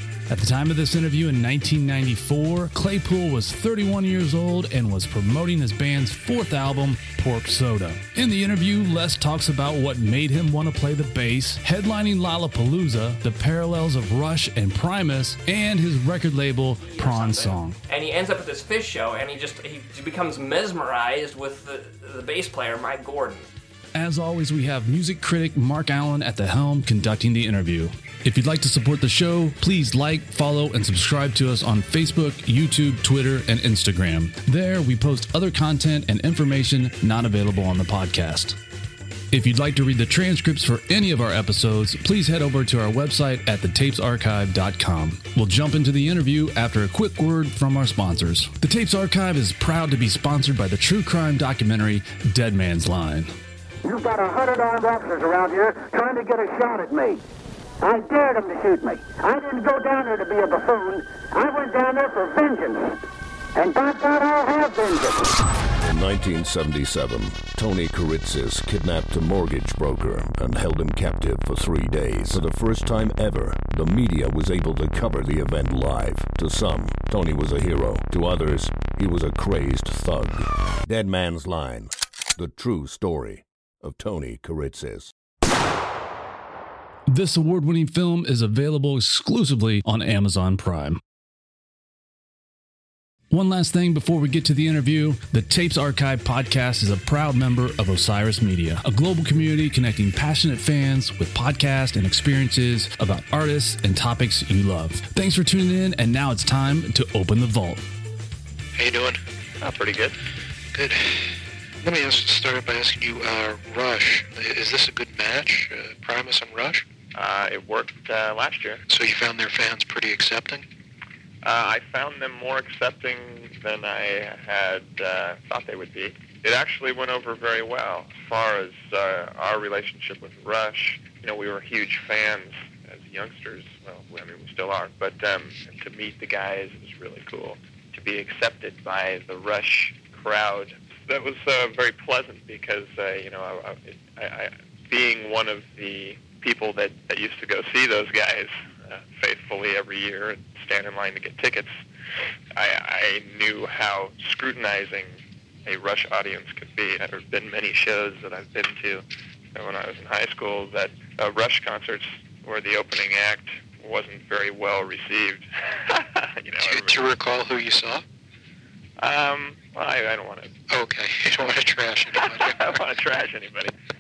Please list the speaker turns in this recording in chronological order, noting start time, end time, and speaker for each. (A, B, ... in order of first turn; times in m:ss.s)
0:00.3-0:17.8 A
0:16.8-0:23.5 B
0:24.0-0:38.6 A
0:39.3-0:53.3 A
0:53.8-0:57.2 C
0:57.8-1:03.0 C
1:03.6-1:05.4 C
1:05.8-1:25.1 D
1:27.1-1:31.0 A
1:33.3-1:47.8 A
1:48.8-1:49.2 E
1:49.6-1:50.2 F
1:50.7-1:56.8 E
1:57.2-1:58.8 F
1:58.9-2:00.7 E
2:01.4-2:31.7 F
2:32.6-2:39.0 F
2:39.6-2:47.0 F
2:46.6-2:48.0 E
2:49.0-2:50.5 F
2:50.7-2:52.7 E
2:52.1-2:53.7 F